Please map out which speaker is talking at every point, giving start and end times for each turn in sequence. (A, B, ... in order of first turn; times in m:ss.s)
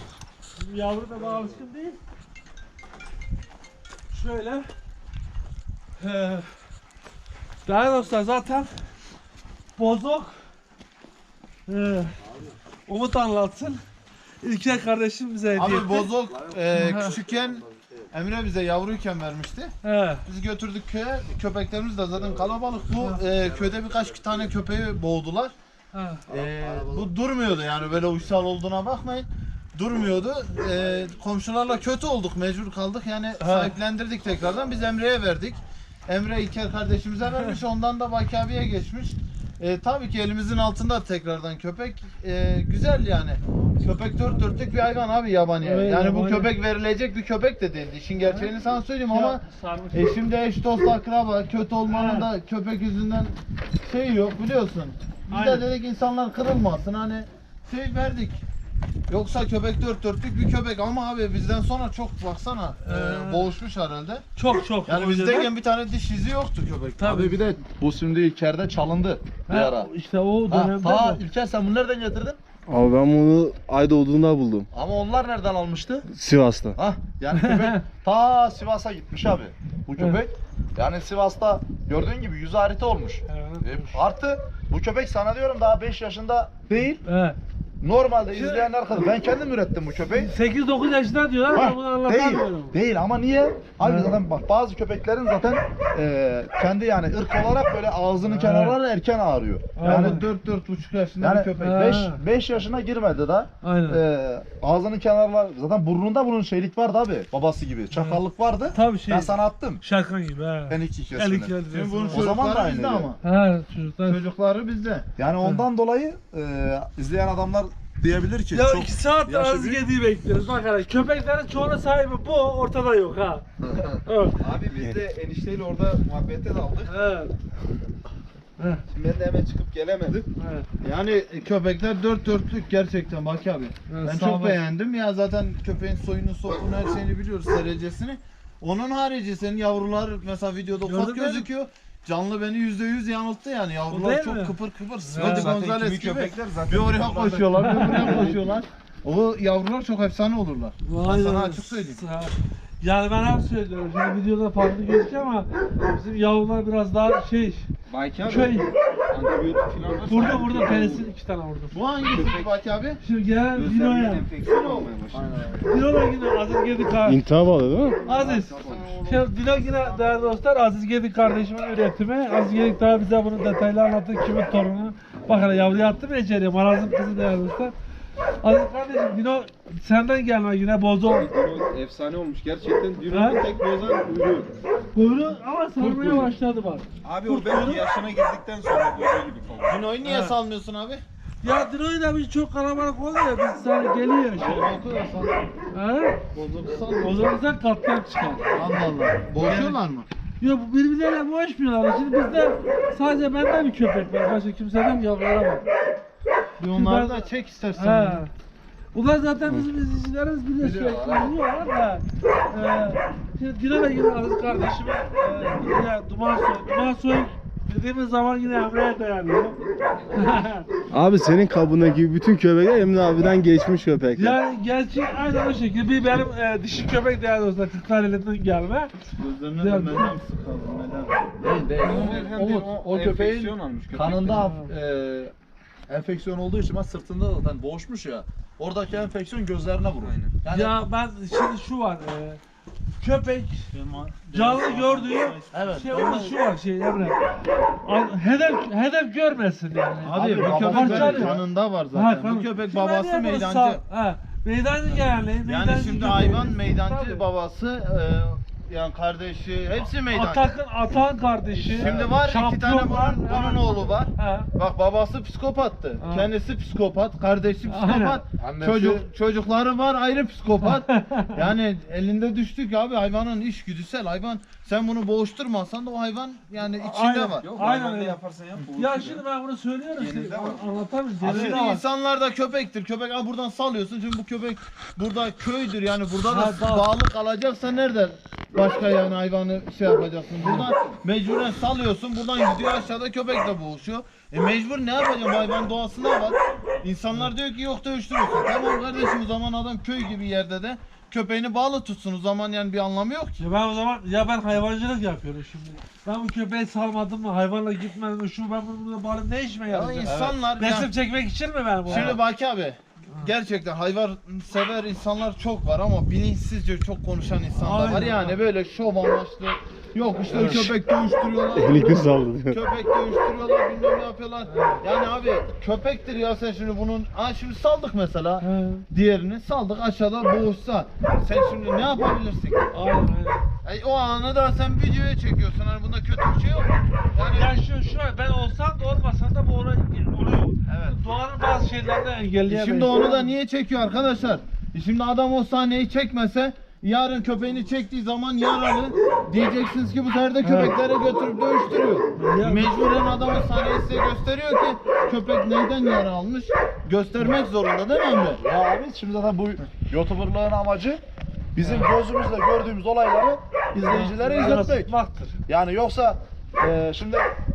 0:00.6-0:02.0 A
0:04.1-0:04.7 A
0:06.0-0:06.5 A
0:07.6-0:08.7 A
0:09.8-0:10.4 A
0:11.7-0:12.2 A
0:12.8-0:13.8 A
0:14.4-0:16.1 A
0:15.5-0:19.7 B
0:16.5-0:17.9 C
0:16.7-0:17.1 A
0:19.8-0:20.2 A
0:20.2-0:25.5 B
0:25.9-0:26.2 A
0:26.3-0:27.1 C
0:26.3-0:58.4 B
0:33.4-0:33.7 A
0:45.6-0:46.5 A
0:48.2-0:48.5 A
0:49.1-0:50.1 A
0:51.9-0:52.3 A
0:55.3-0:55.6 A
0:59.1-1:04.2 B
1:02.8-1:03.5 A
1:04.4-1:05.5 A
1:04.8-1:07.4 B
1:07.0-1:07.4 A
1:07.0-1:09.9 C
1:09.5-1:11.2 A
1:10.5-1:12.4 C
1:12.7-1:14.6 D
1:13.6-1:14.6 E
1:14.7-1:16.0 C
1:16.1-1:16.8 D
1:16.7-1:27.0 C
1:17.3-1:17.8 A
1:20.0-1:20.2 A
1:23.3-1:24.0 A
1:27.0-1:27.4 A
1:27.8-1:30.3 C
1:28.3-1:29.0 A
1:30.1-1:32.8 A
1:31.5-1:40.2 C
1:33.8-1:34.2 A
1:38.2-1:38.8 A
1:39.8-1:40.2 A
1:39.8-1:41.8 B
1:41.2-1:49.8 C
1:41.6-1:42.2 A
1:43.6-1:44.0 A
1:47.9-1:48.2 A
1:48.7-1:52.3 A
1:50.7-1:51.5 C
1:51.7-1:53.2 B
1:52.1-1:53.1 C
1:53.2-1:54.2 A
1:54.0-1:55.1 B
1:55.2-1:59.8 C
1:58.5-2:03.4 A
2:04.0-2:04.4 A
2:04.4-2:06.9 E
2:06.9-2:07.3 A
2:08.6-2:08.8 A
2:08.9-2:10.2 E
2:10.4-2:10.7 A
2:10.8-2:32.0 B
2:13.9-2:14.6 A
2:20.8-2:21.5 A
2:23.9-2:24.5 A
2:25.1-2:25.5 A
2:25.2-2:28.4 C
2:27.6-2:28.3 A
2:30.8-2:37.7 A
2:37.9-2:41.1 E
2:38.2-2:38.7 A
2:40.0-2:41.8 A
2:41.7-2:43.0 B
2:42.0-2:42.6 E
2:43.0-2:44.2 A
2:43.5-2:45.6 E
2:44.4-2:44.9 B
2:45.1-2:45.7 C
2:45.6-2:47.2 A
2:47.0-2:48.0 D
2:48.0-2:57.7 A
2:48.1-2:49.2 B
2:48.2-2:48.9 C
2:48.2-2:48.9 E
2:58.4-3:01.3 A
3:01.0-3:04.5 E
3:03.1-3:03.4 A
3:04.9-3:07.8 A
3:05.8-3:06.3 E
3:07.0-3:09.8 E
3:09.6-3:11.0 B
3:10.0-3:10.4 A
3:11.4-3:14.7 A
3:14.3-3:15.4 B
3:15.7-3:16.2 A
3:16.3-3:17.4 B
3:17.0-3:18.4 A
3:18.5-3:20.1 B
3:19.4-3:19.8 A
3:20.4-3:25.6 A
3:26.6-3:28.2 B
3:26.7-3:28.3 A
3:28.9-3:39.6 A
3:30.6-3:31.3 C
3:40.1-3:40.7 A
3:40.9-3:44.3 E
3:41.8-3:43.2 D
3:44.1-3:48.9 A
3:49.2-3:51.3 B
3:49.6-3:50.1 A
3:51.4-3:54.4 E
3:51.8-3:55.3 C
3:51.8-3:52.2 A
3:54.4-3:54.7 A
3:55.9-4:00.8 C
4:00.0-4:00.3 E
4:00.5-4:02.4 A
4:03.0-4:03.6 A
4:03.7-4:06.0 B
4:04.3-4:07.2 A
4:05.5-4:06.4 C
4:07.8-4:11.4 A
4:10.0-4:13.8 B
4:10.1-4:11.4 C
4:11.9-4:17.2 A
4:15.4-4:20.5 B
4:20.1-4:24.5 A
4:21.6-4:37.5 B
4:21.8-4:22.1 C
4:26.0-4:26.3 A
4:27.7-4:28.2 A
4:28.4-4:29.0 C
4:30.6-4:31.3 A
4:36.8-4:38.2 A
4:37.4-4:39.2 E
4:38.7-4:41.8 A
4:40.0-4:40.7 E
4:41.2-5:03.4 B
4:46.3-4:46.8 A
4:50.4-4:50.6 A
5:03.4-5:12.2 A
5:09.7-5:10.9 B
5:10.1-5:10.4 C
5:11.8-5:32.7 B
5:17.6-5:18.4 A
5:20.3-5:20.6 A
5:21.6-5:22.5 D
5:24.5-5:24.8 A
5:28.4-5:28.8 A
5:32.7-5:33.4 A
5:33.6-5:37.6 B
5:37.3-5:43.3 A
5:40.7-5:41.0 B
5:42.4-5:58.4 B
5:50.4-5:50.7 A
5:52.2-5:52.7 A
5:58.4-6:01.0 C
6:01.5-6:04.9 C
6:03.8-6:05.4 A
6:05.5-6:07.3 C